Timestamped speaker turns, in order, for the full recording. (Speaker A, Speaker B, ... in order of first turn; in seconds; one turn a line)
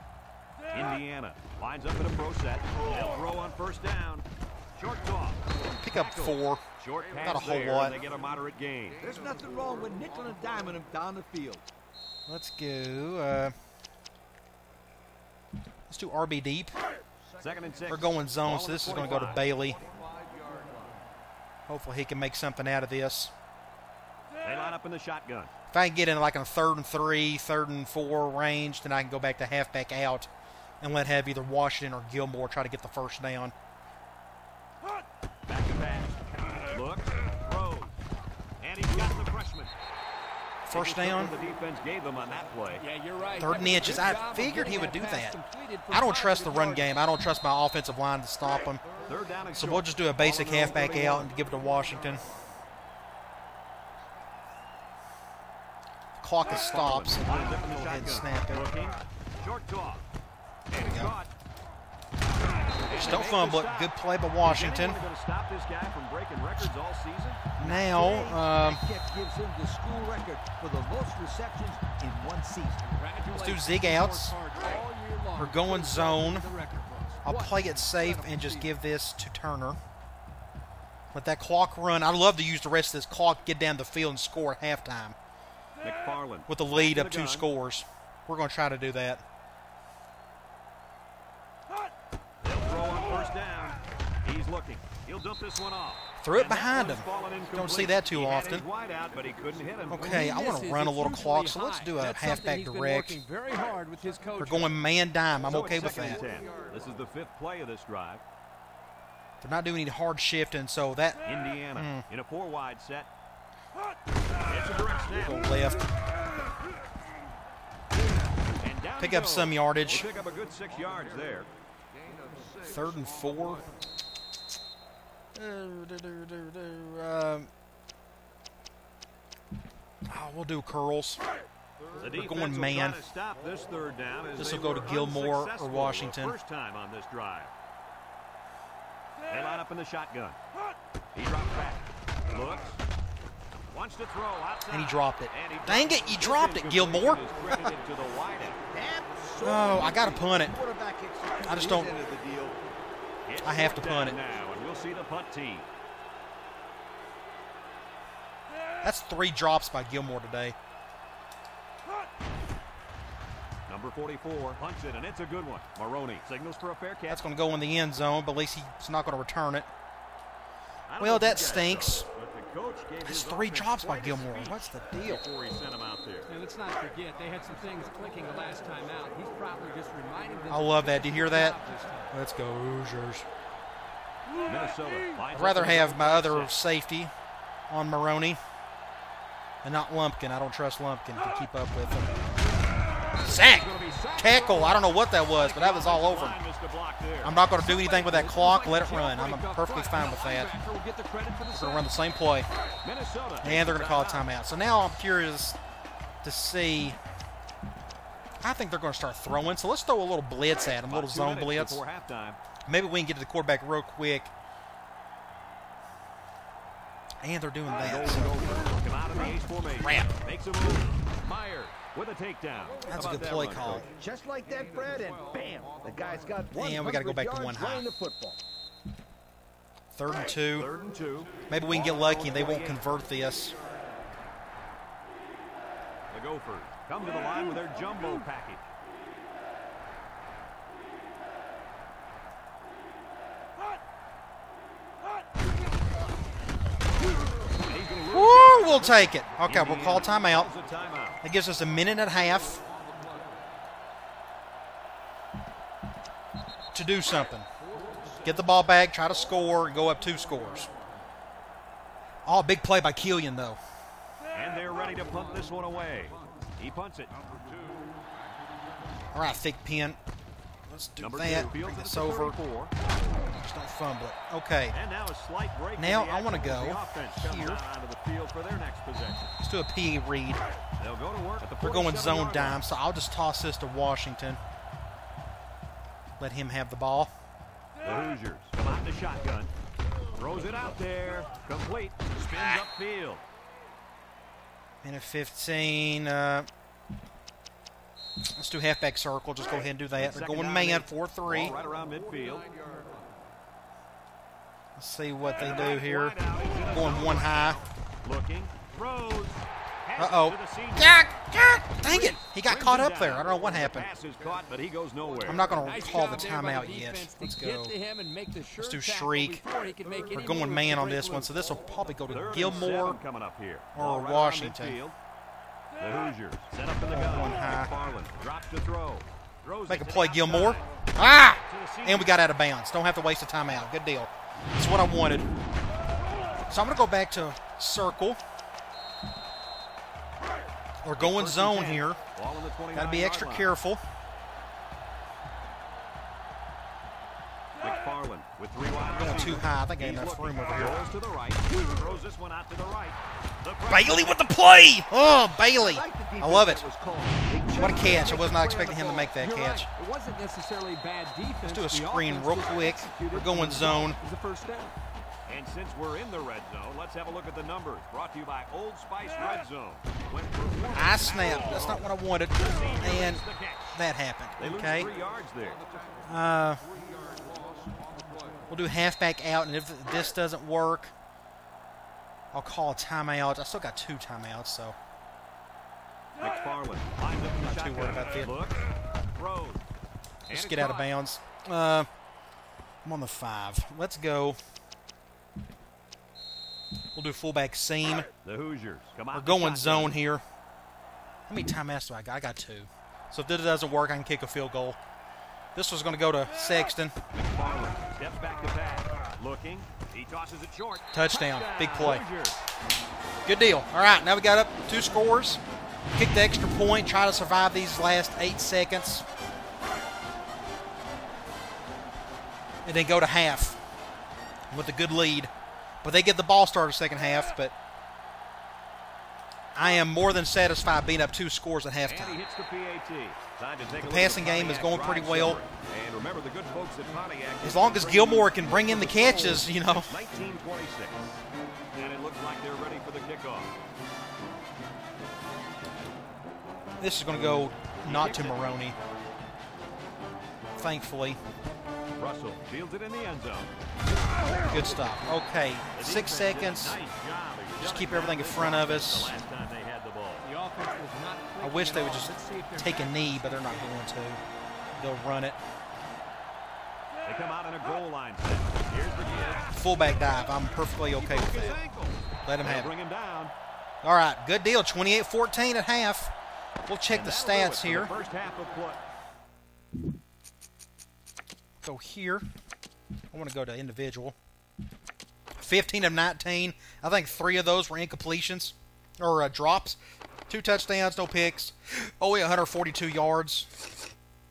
Speaker A: 0.7-9.0
Speaker B: 5.7-6.6
Speaker B: 7.2-8.0
Speaker C: 9.0-11.6
Speaker B: 12.3-13.6
Speaker B: 15.9-16.7
Speaker A: 17.4-19.4
Speaker B: 17.9-19.8
Speaker B: 21.7-23.3
Speaker A: 24.4-25.5
Speaker B: 25.7-30.3
Speaker B: 30.8-33.5
Speaker A: 35.5-37.9
Speaker A: 38.6-39.7
Speaker B: 40.7-41.3
Speaker A: 40.7-42.9
Speaker D: 42.8-47.0
Speaker B: 43.4-45.4
Speaker B: 45.9-48.8
Speaker A: 49.0-51.3
Speaker B: 49.5-52.2
Speaker B: 56.2-58.7
Speaker A: 56.5-60.0
Speaker A: 60.7-61.3
Speaker B: 60.8-61.2
Speaker A: 62.8-67.7
Speaker B: 62.9-65.0
Speaker B: 67.6-68.8
Speaker C: 67.7-72.9
Speaker D: 72.9-78.7
Speaker B: 73.3-74.3
Speaker B: 75.4-76.5
Speaker B: 77.2-79.8
Speaker B: 81.1-85.2
Speaker A: 85.8-87.5
Speaker B: 86.5-89.2
Speaker A: 92.4-100.2
Speaker B: 96.2-98.7
Speaker B: 99.9-103.2
Speaker D: 99.9-104.8
Speaker B: 104.4-106.2
Speaker A: 105.4-108.2
Speaker B: 109.4-111.2
Speaker A: 111.3-113.1
Speaker B: 111.8-112.1
Speaker A: 114.5-115.5
Speaker B: 115.2-115.8
Speaker A: 118.6-121.5
Speaker B: 119.0-120.1
Speaker B: 122.6-123.7
Speaker B: 125.3-127.5
Speaker B: 130.1-131.2
Speaker A: 132.0-137.5
Speaker B: 132.0-133.0
Speaker B: 134.4-136.4
Speaker A: 139.3-140.4
Speaker A: 141.1-142.8
Speaker A: 143.7-148.6
Speaker B: 144.7-147.7
Speaker C: 148.7-152.6
Speaker B: 149.4-150.6
Speaker B: 151.4-152.0
Speaker A: 153.3-155.7
Speaker B: 153.4-154.2
Speaker B: 158.8-160.6
Speaker A: 163.7-167.2
Speaker B: 167.1-169.7
Speaker A: 170.9-176.3
Speaker B: 171.0-172.1
Speaker B: 173.1-175.2
Speaker D: 176.3-182.1
Speaker B: 180.5-181.6
Speaker B: 182.1-183.3
Speaker A: 184.4-186.6
Speaker B: 185.3-187.1
Speaker B: 187.7-188.4
Speaker B: 189.6-192.1
Speaker B: 193.2-196.4
Speaker A: 193.2-197.5
Speaker B: 197.2-200.5
Speaker D: 197.6-201.9
Speaker B: 201.5-202.5
Speaker A: 202.8-204.3
Speaker B: 203.4-205.6
Speaker B: 206.2-207.0
Speaker B: 208.4-211.8
Speaker A: 210.9-212.4
Speaker B: 212.7-214.3
Speaker B: 217.2-218.4
Speaker A: 217.8-223.9
Speaker B: 219.8-220.1
Speaker B: 222.9-223.9
Speaker C: 223.9-228.4
Speaker B: 226.5-227.9
Speaker B: 229.9-230.7
Speaker A: 230.5-232.8
Speaker B: 231.5-233.6
Speaker A: 236.1-238.7
Speaker A: 247.6-251.2
Speaker B: 248.1-250.5
Speaker B: 251.2-252.6
Speaker B: 256.7-257.5
Speaker B: 258.2-260.7
Speaker B: 262.2-263.6
Speaker A: 264.3-267.6
Speaker B: 269.1-270.0
Speaker B: 270.7-272.4
Speaker A: 271.0-272.7
Speaker B: 273.3-274.8
Speaker A: 274.7-279.4
Speaker B: 275.8-277.6
Speaker B: 279.4-280.4
Speaker A: 280.8-282.6
Speaker B: 281.6-284.4
Speaker B: 286.2-287.1
Speaker A: 287.8-289.5
Speaker A: 290.1-293.2
Speaker B: 292.2-292.6
Speaker B: 294.8-296.5
Speaker B: 298.3-301.6
Speaker A: 300.0-302.5
Speaker B: 304.8-307.6
Speaker A: 305.4-311.0
Speaker B: 310.0-313.9
Speaker A: 311.8-315.6
Speaker B: 315.3-317.8
Speaker D: 315.6-321.3
Speaker B: 318.6-319.4
Speaker B: 320.1-323.0
Speaker A: 322.1-325.0
Speaker B: 323.8-324.8
Speaker A: 325.8-330.6
Speaker B: 326.9-327.7
Speaker B: 329.7-335.3
Speaker A: 331.5-332.2
Speaker B: 336.5-338.2
Speaker B: 340.8-342.0
Speaker A: 341.0-343.5
Speaker B: 342.8-343.8
Speaker A: 347.6-354.2
Speaker B: 348.9-350.8
Speaker B: 353.7-356.6
Speaker C: 355.6-358.9
Speaker B: 357.6-359.7
Speaker D: 358.5-364.8
Speaker B: 361.4-364.0
Speaker A: 365.3-373.8
Speaker B: 370.7-374.9
Speaker A: 374.4-375.6
Speaker B: 376.0-376.6
Speaker B: 378.5-380.9
Speaker B: 382.3-384.8
Speaker A: 386.2-389.6
Speaker B: 387.4-388.4
Speaker A: 390.3-390.9
Speaker B: 390.3-391.9
Speaker B: 392.8-394.4
Speaker B: 396.9-398.1
Speaker A: 398.2-399.9
Speaker B: 399.1-400.2
Speaker B: 401.3-404.8
Speaker B: 405.6-406.9
Speaker A: 407.1-412.4
Speaker B: 410.9-412.1
Speaker B: 413.3-415.4
Speaker B: 415.9-419.1
Speaker B: 422.6-423.6
Speaker B: 424.5-425.3
Speaker B: 425.8-427.5
Speaker B: 429.6-432.2
Speaker A: 431.9-441.1
Speaker B: 433.8-435.4
Speaker B: 437.4-439.9
Speaker A: 441.7-443.5
Speaker B: 446.8-448.8
Speaker A: 447.8-448.6
Speaker B: 450.6-451.2
Speaker A: 452.0-453.5
Speaker B: 454.3-456.8
Speaker A: 455.7-460.3
Speaker B: 457.6-459.1
Speaker D: 460.2-463.8
Speaker B: 461.4-464.2
Speaker B: 464.8-465.4
Speaker A: 467.1-469.5
Speaker B: 469.5-471.6
Speaker A: 470.9-473.3
Speaker B: 472.2-472.7
Speaker B: 473.8-476.1
Speaker B: 476.7-477.9
Speaker A: 476.9-478.8
Speaker B: 481.6-482.2
Speaker B: 483.1-484.1
Speaker B: 485.4-493.5